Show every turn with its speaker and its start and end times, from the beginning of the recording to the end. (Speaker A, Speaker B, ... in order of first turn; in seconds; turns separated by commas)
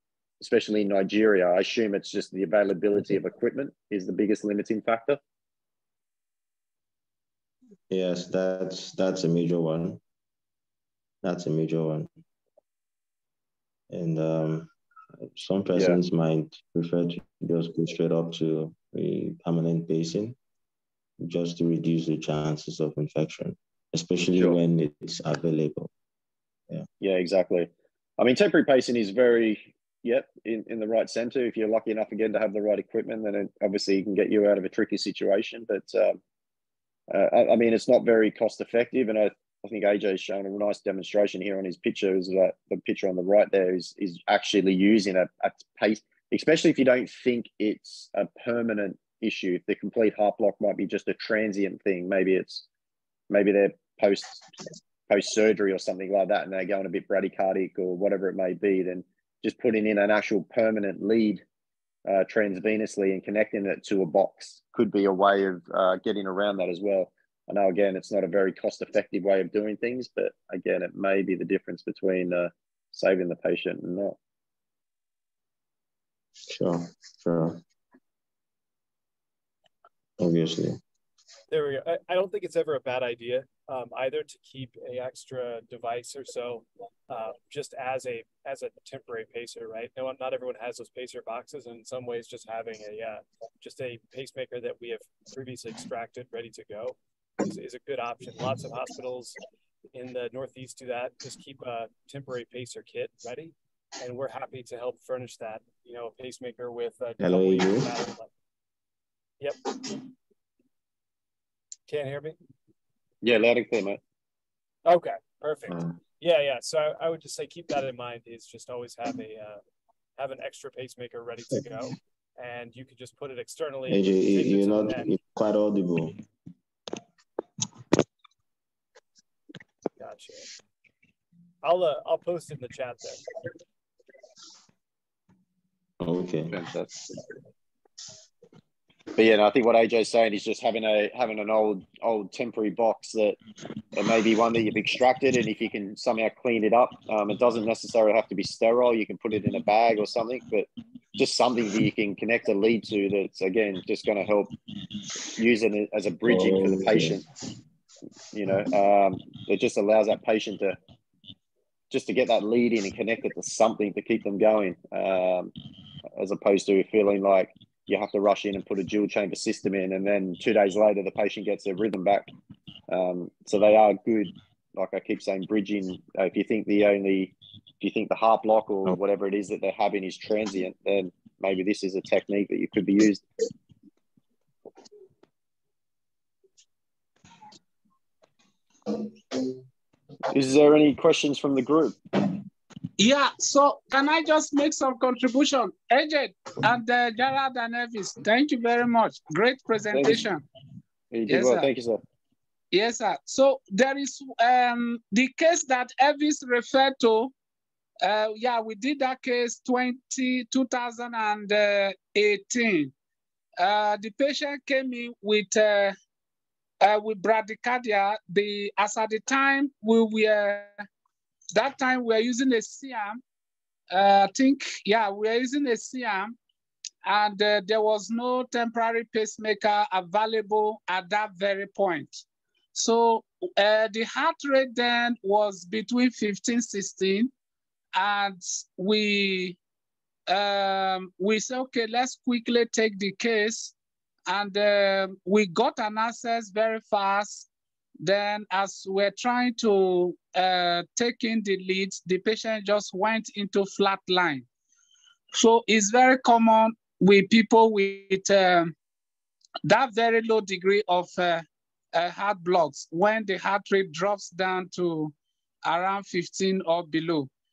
Speaker A: 0.4-5.2, Speaker B: 7.9-10.0, Speaker B: 11.2-12.1, Speaker B: 13.9-20.4, Speaker B: 21.2-25.9, Speaker A: 27.0-36.2, Speaker A: 37.1-52.7, Speaker A: 53.3-54.5, Speaker A: 55.1-61.4, Speaker A: 62.1-74.2, Speaker B: 76.5-77.6, Speaker B: 80.2-80.8, Speaker C: 81.5-99.4, Speaker C: 99.9-108.3, Speaker B: 107.2-107.9, Speaker C: 109.4-109.7, Speaker C: 111.9-112.4, Speaker A: 113.2-114.0, Speaker C: 114.8-119.6, Speaker B: 115.7-116.0, Speaker C: 120.2-125.1, Speaker B: 123.9-126.2, Speaker C: 130.0-130.5, Speaker C: 131.6-133.3, Speaker B: 136.0-136.6, Speaker A: 136.5-137.0, Speaker A: 139.2-143.4, Speaker A: 143.9-154.5, Speaker A: 155.3-157.2, Speaker B: 156.2-157.2, Speaker A: 158.3-160.8, Speaker A: 161.9-165.5, Speaker A: 166.2-172.3, Speaker A: 172.9-183.2, Speaker A: 190.3-192.0, Speaker D: 193.0-200.4, Speaker A: 199.9-200.2, Speaker A: 201.1-202.0, Speaker D: 201.3-201.7, Speaker D: 202.7-207.3, Speaker D: 208.0-212.9, Speaker D: 213.6-215.9, Speaker D: 216.8-220.7, Speaker D: 221.5-223.2, Speaker D: 223.9-226.4, Speaker D: 227.1-232.2, Speaker D: 232.7-237.3, Speaker D: 237.9-239.6, Speaker D: 240.3-243.7, Speaker D: 244.3-247.5, Speaker D: 248.0-254.5, Speaker D: 255.3-258.7, Speaker D: 259.6-267.3